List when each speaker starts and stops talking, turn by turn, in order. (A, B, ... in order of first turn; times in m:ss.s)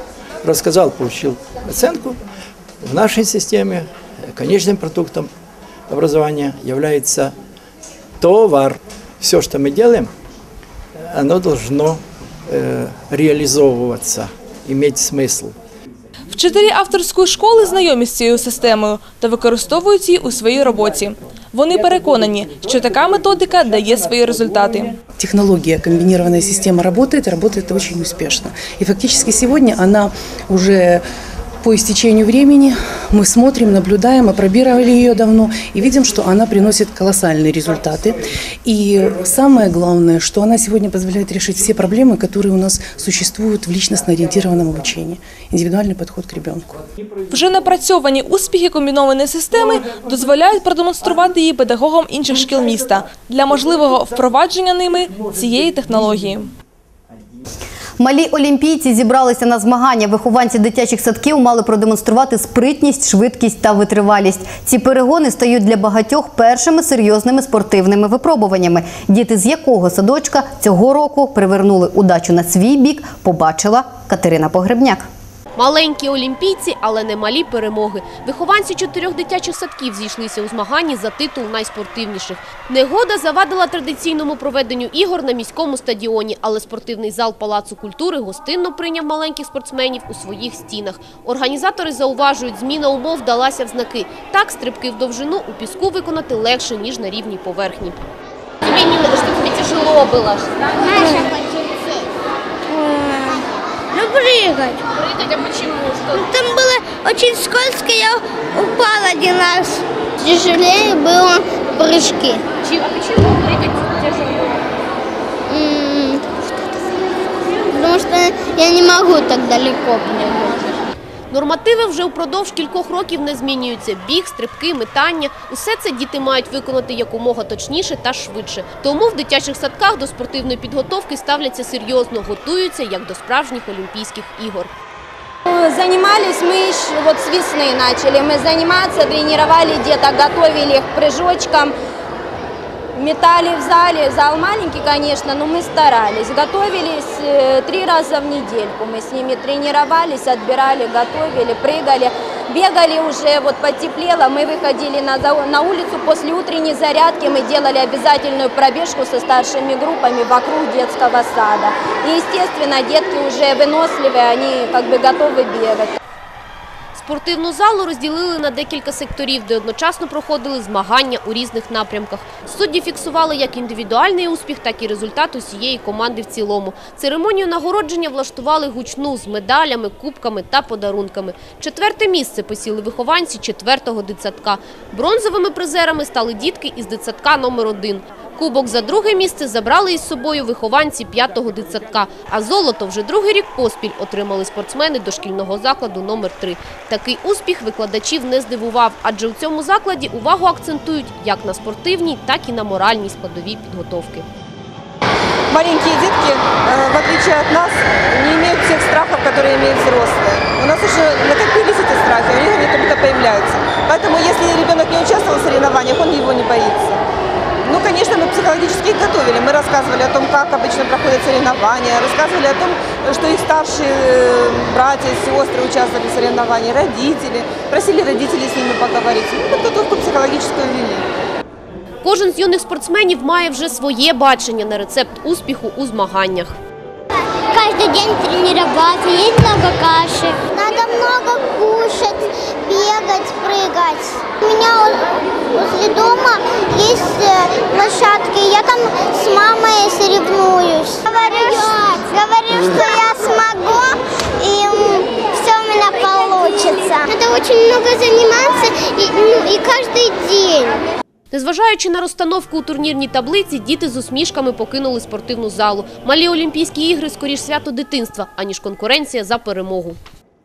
0:00.4-0:02.2 A
0:02.8-0:05.3 A
0:05.9-0:07.3 A
0:08.2-0:10.1 A
0:11.1-0:15.5 A
0:16.3-0:25.0 B
0:25.2-0:31.0 C
0:31.6-0:46.8 C
0:47.3-0:56.5 B
0:58.0-1:15.1 D
1:15.6-1:38.0 E
1:38.7-1:40.5 E
1:40.9-1:41.2 F
1:42.7-1:43.4 F
1:43.9-1:44.8 F
1:46.1-1:52.4 F
1:55.5-1:56.8 F
1:57.7-2:00.6 F
2:01.3-2:14.7 E
2:15.5-2:21.7 G
2:22.9-2:46.0 G
2:47.0-3:24.2 E
3:25.5-3:37.0 H
3:37.6-3:51.0 H
3:52.0-3:56.6 E
3:57.5-4:20.8 F
4:21.3-4:30.0 E